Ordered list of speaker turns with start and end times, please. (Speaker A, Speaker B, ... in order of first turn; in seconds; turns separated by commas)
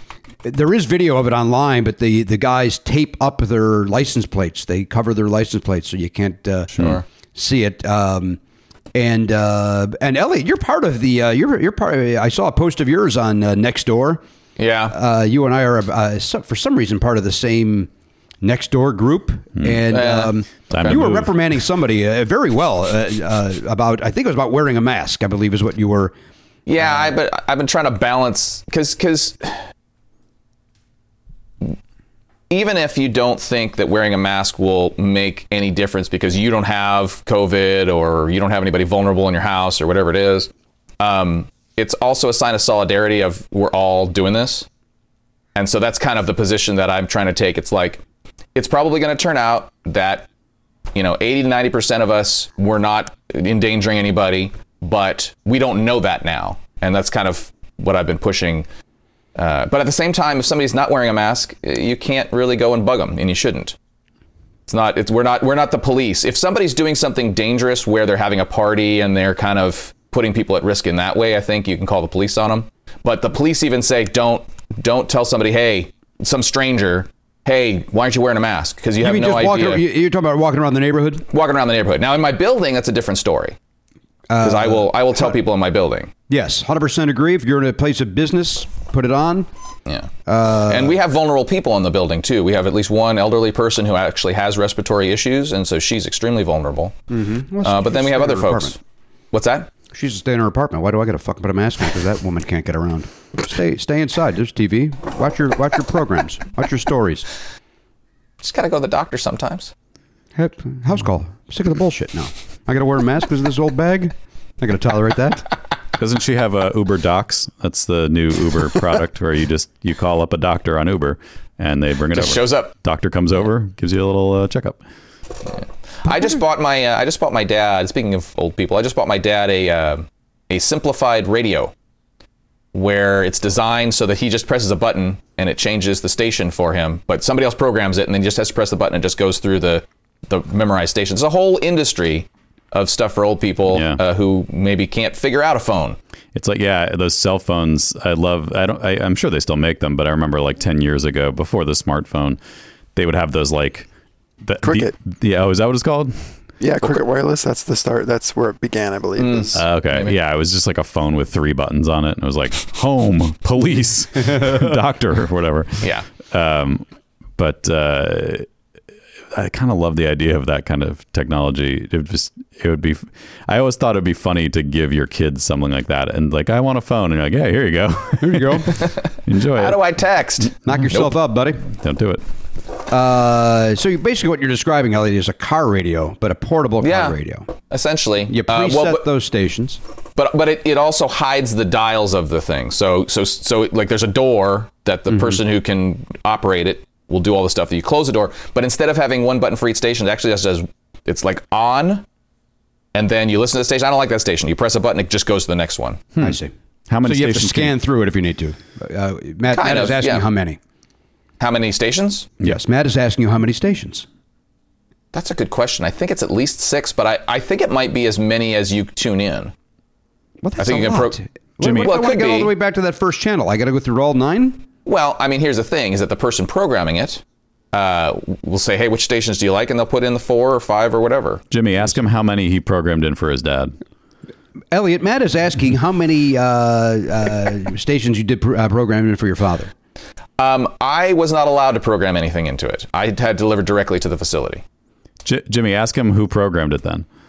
Speaker A: 0.4-6.7, Speaker B: 6.7-7.0, Speaker C: 6.8-7.0, Speaker A: 7.3-8.4, Speaker A: 8.9-14.2, Speaker C: 14.6-14.9, Speaker A: 14.9-17.9, Speaker A: 18.4-26.1, Speaker C: 19.9-21.0, Speaker B: 20.7-21.4, Speaker C: 26.6-29.6, Speaker A: 26.8-27.1, Speaker C: 32.5-44.6, Speaker C: 45.5-48.0, Speaker C: 48.5-50.3, Speaker C: 50.9-58.7, Speaker C: 59.4-63.7, Speaker C: 64.7-79.8, Speaker A: 79.0-81.2, Speaker C: 81.3-83.5, Speaker A: 84.3-85.3, Speaker C: 84.4-86.1, Speaker A: 86.3-89.5, Speaker A: 90.2-91.0, Speaker C: 90.7-97.0, Speaker A: 97.1-98.8, Speaker C: 97.6-98.8, Speaker C: 99.3-99.7, Speaker A: 99.9-107.3, Speaker C: 108.4-109.7, Speaker A: 110.3-115.5, Speaker B: 116.0-124.8, Speaker C: 122.1-122.7, Speaker C: 125.5-131.7, Speaker C: 132.7-146.0, Speaker B: 143.7-144.0, Speaker B: 146.3-152.4, Speaker B: 152.9-153.9, Speaker B: 154.4-156.3, Speaker D: 154.6-154.9, Speaker D: 156.6-159.6, Speaker C: 159.2-160.1, Speaker B: 159.5-166.8, Speaker C: 165.8-166.1, Speaker B: 167.4-168.5, Speaker B: 169.3-179.8, Speaker A: 178.2-178.9, Speaker C: 178.8-181.2, Speaker A: 180.6-181.6, Speaker B: 181.7-182.2, Speaker A: 182.9-187.5, Speaker C: 186.8-187.2, Speaker C: 187.7-189.0, Speaker A: 188.3-189.8, Speaker C: 190.2-202.0, Speaker A: 195.1-195.4, Speaker C: 202.9-206.0, Speaker B: 206.2-207.8, Speaker A: 206.2-206.5, Speaker A: 207.0-210.6, Speaker C: 209.5-210.3, Speaker C: 211.4-212.3, Speaker A: 212.4-214.1, Speaker C: 215.1-219.5, Speaker A: 220.4-224.6, Speaker C: 220.6-221.2, Speaker B: 221.6-221.9, Speaker C: 221.7-222.5, Speaker C: 224.8-227.2, Speaker C: 227.7-231.4, Speaker B: 231.5-233.8, Speaker A: 234.7-239.7, Speaker C: 240.4-244.6, Speaker B: 245.2-247.1